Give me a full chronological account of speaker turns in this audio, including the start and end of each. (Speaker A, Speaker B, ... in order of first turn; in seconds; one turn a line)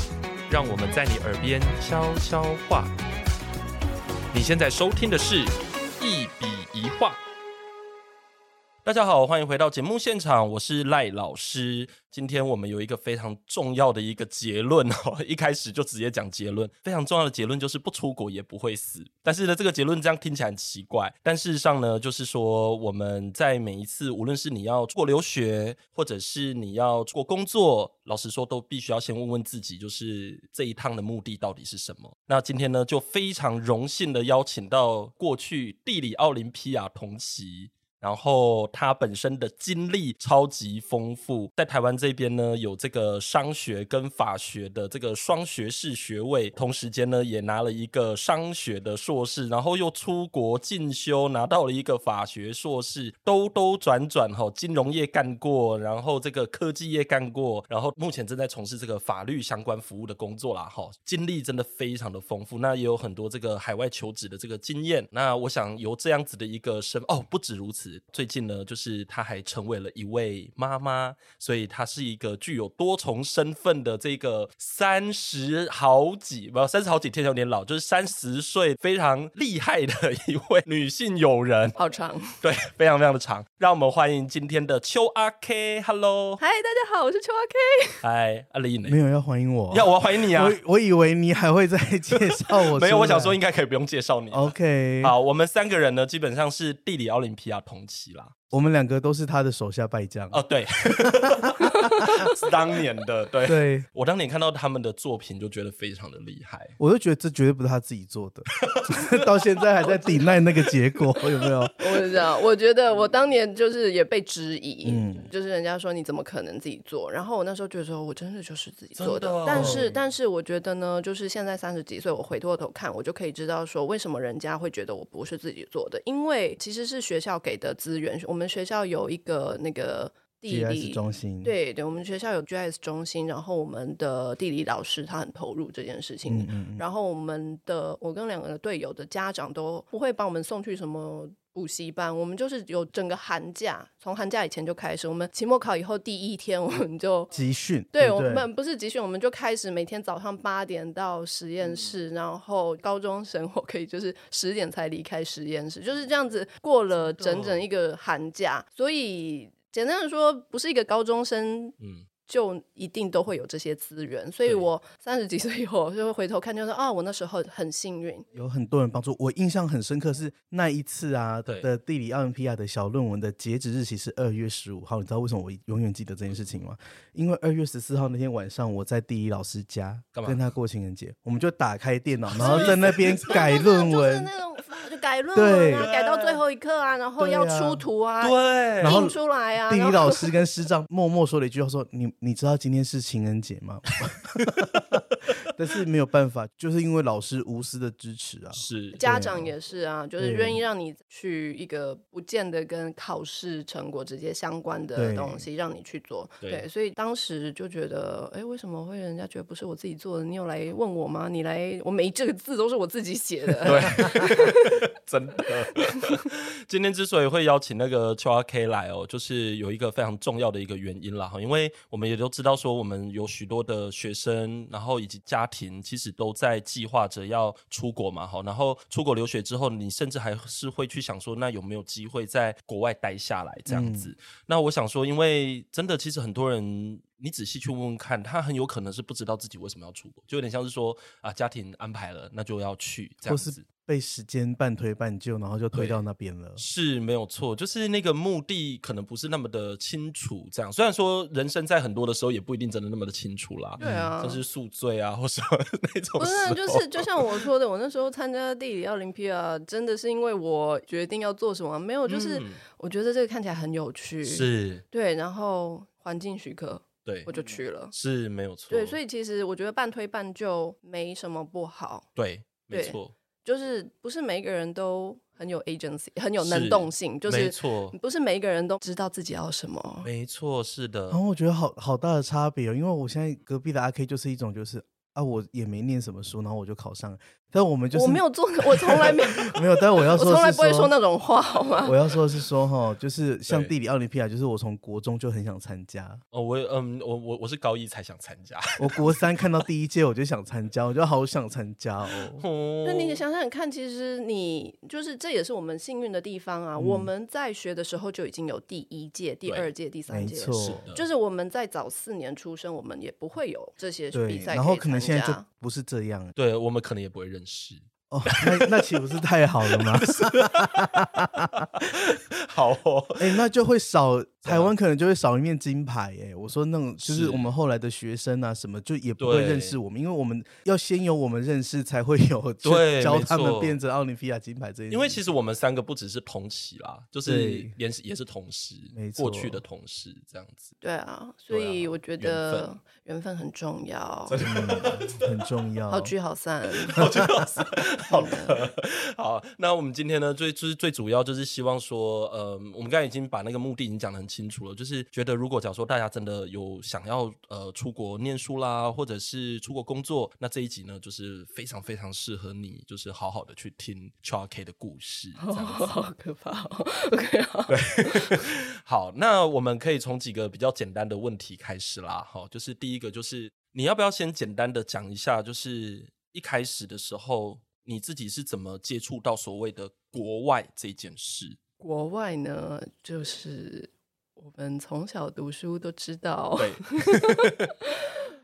Speaker A: 0.5-2.9
Speaker A: 4.3-7.2
Speaker A: 8.8-81.8
Speaker B: 81.8-82.4
Speaker A: 82.4-86.4
Speaker B: 86.4-88.0
Speaker A: 88.0-89.0
Speaker C: 88.8-93.4
Speaker A: 89.7-90.6
Speaker A: 92.2-98.3
Speaker C: 94.3-95.1
Speaker C: 98.5-102.3
Speaker A: 100.3-106.8
Speaker C: 103.4-103.9
Speaker C: 106.8-111.8
Speaker A: 108.6-109.5
Speaker A: 110.6-111.5
Speaker B: 111.8-147.3
Speaker C: 114.8-115.3
Speaker A: 119.0-120.0
Speaker C: 119.5-119.9
Speaker C: 130.5-131.5
Speaker C: 136.3-136.8
Speaker C: 147.3-148.5
Speaker B: 147.9-161.7
Speaker A: 157.1-157.7
Speaker A: 161.8-162.1
Speaker B: 162.2-168.3
Speaker C: 168.3-184.3
Speaker A: 180.1-180.5
Speaker A: 182.3-183.4
Speaker B: 182.4-190.3
Speaker C: 185.3-185.9
Speaker A: 185.8-186.4
Speaker C: 187.2-187.8
Speaker A: 188.2-189.0
Speaker C: 188.8-199.5
Speaker A: 198.5-199.0
Speaker B: 198.9-214.8
Speaker C: 200.2-200.6
Speaker C: 204.9-205.4
Speaker A: 213.6-243.6
Speaker C: 213.8-214.1
Speaker C: 233.7-234.1
Speaker C: 243.2-246.6
Speaker A: 245.7-246.0
Speaker A: 246.6-257.5
Speaker B: 253.8-254.4
Speaker C: 253.8-254.1
Speaker B: 256.2-267.9
Speaker A: 262.1-262.6
Speaker A: 264.2-264.8
Speaker A: 267.0-267.3
Speaker A: 267.9-269.0
Speaker B: 268.7-272.1
Speaker A: 272.1-273.1
Speaker B: 272.7-280.1
Speaker A: 276.4-277.9
Speaker A: 280.0-281.2
Speaker C: 281.1-290.9
Speaker B: 287.9-292.1
Speaker C: 291.8-296.2
Speaker A: 293.5-293.7
Speaker A: 296.3-299.6
Speaker C: 298.8-302.4
Speaker A: 302.4-303.2
Speaker B: 302.8-315.4
Speaker C: 306.8-307.1
Speaker A: 309.4-309.7
Speaker C: 310.1-310.8
Speaker A: 310.6-311.1
Speaker C: 314.1-316.3
Speaker A: 316.4-319.0
Speaker C: 318.1-321.7
Speaker A: 319.7-323.4
Speaker C: 323.2-335.2
Speaker A: 324.4-324.7
Speaker A: 327.0-327.5
Speaker A: 329.2-329.8
Speaker A: 332.6-333.8
Speaker A: 334.9-340.7
Speaker C: 337.2-337.7
Speaker C: 338.9-339.6
Speaker B: 340.8-344.4
Speaker A: 341.5-342.7
Speaker A: 344.3-345.3
Speaker C: 344.4-346.1
Speaker B: 345.9-347.0
Speaker A: 346.9-366.0
Speaker B: 348.1-348.6
Speaker B: 365.4-368.4
Speaker A: 367.7-381.6
Speaker B: 381.8-387.9
Speaker A: 386.6-387.7